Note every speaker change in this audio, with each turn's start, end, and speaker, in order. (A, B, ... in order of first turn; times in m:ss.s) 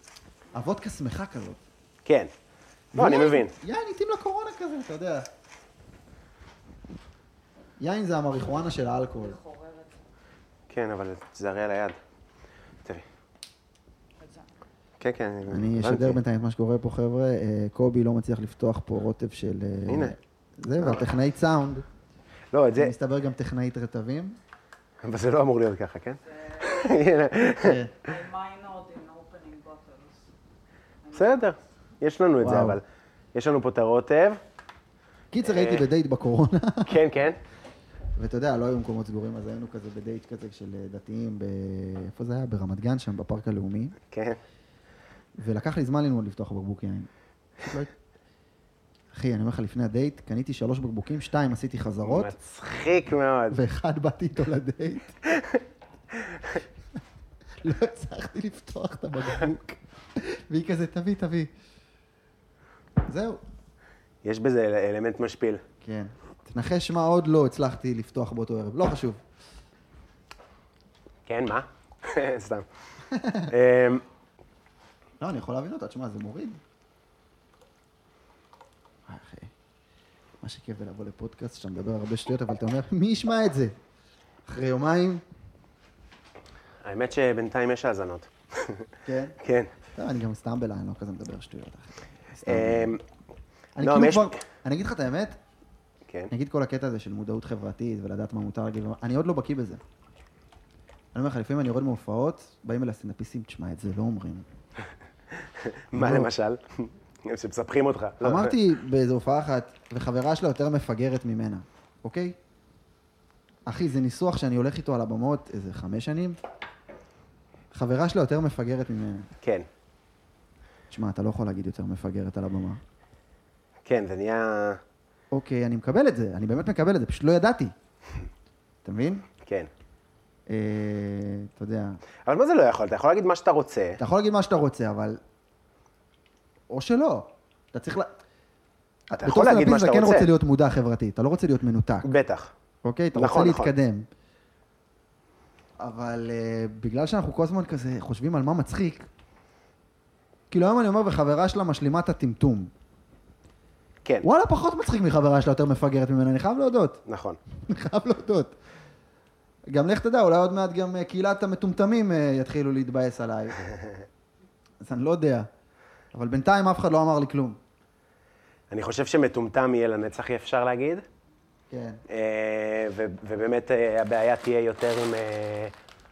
0:00.5-0:01.6 A
0:02.0-0:02.3 B
0:02.9-0:05.3 A
0:03.0-0:03.5 B
0:07.8-0:09.4 A
0:09.2-0:10.0 C
0:10.7-0:12.0 B
0:15.0-0:16.2 B
0:15.5-0:21.9 A
0:19.9-0:20.2 B
0:22.5-0:22.9 B
0:22.8-0:24.4 A
0:25.0-0:27.8 B
0:26.4-0:27.0 C
0:27.6-0:27.9 A
0:28.0-0:30.3 C
0:31.0-0:31.6 C
0:31.1-0:32.8 B
0:32.4-0:32.8 A
0:33.3-0:34.4 B
0:35.3-0:37.0 A
0:35.4-0:35.8 B
0:36.9-0:37.4 B
0:38.2-0:44.0 A
0:44.1-0:44.4 B
0:45.4-0:47.1 A
0:47.6-0:47.9 A
0:49.1-0:52.4 A
0:52.0-0:53.6 B
0:53.5-0:55.2 A
0:55.3-0:55.6 B
0:57.6-1:01.5 A
1:03.0-1:03.4 A
1:04.2-1:05.6 B
1:05.8-1:09.2 A
1:11.3-1:12.7 B
1:13.1-1:13.5 A
1:13.5-1:14.0 B
1:15.2-1:16.6 A
1:19.1-1:19.5 A
1:20.4-1:23.8 A
1:24.5-1:25.2 A
1:26.8-1:28.9 B
1:29.0-1:29.4 A
1:29.4-1:29.7 B
1:29.9-1:33.0 A
1:32.5-1:33.0 B
1:33.8-1:35.4 A
1:33.8-1:34.4 B
1:36.3-1:39.8 A
1:41.1-1:44.5 A
1:45.4-1:48.6 B
1:45.9-1:46.3 A
1:48.2-1:52.4 A
1:53.7-1:56.4 A
1:57.7-1:59.3 A
1:59.4-1:59.7 B
2:00.9-2:02.8 A
2:03.8-2:04.8 B
2:05.3-2:07.7 A
2:08.8-2:09.2 A
2:09.4-2:09.7 B
2:10.5-2:12.0 A
2:12.3-2:14.0 B
2:14.0-2:15.2 A
2:16.7-2:18.1 A
2:19.1-2:22.1 A
2:19.2-2:20.3 B
2:22.0-2:22.5 B
2:22.8-2:24.1 A
2:23.2-2:23.7 B
2:25.8-2:29.1 A
2:30.5-2:32.7 A
2:34.2-2:37.0 A
2:37.1-2:37.4 B
2:37.5-2:38.5 A
2:39.7-2:43.6 A
2:44.8-2:45.5 A
2:46.1-2:47.6 A
2:48.7-2:51.0 B
2:51.7-2:52.0 A
2:52.1-2:55.7 B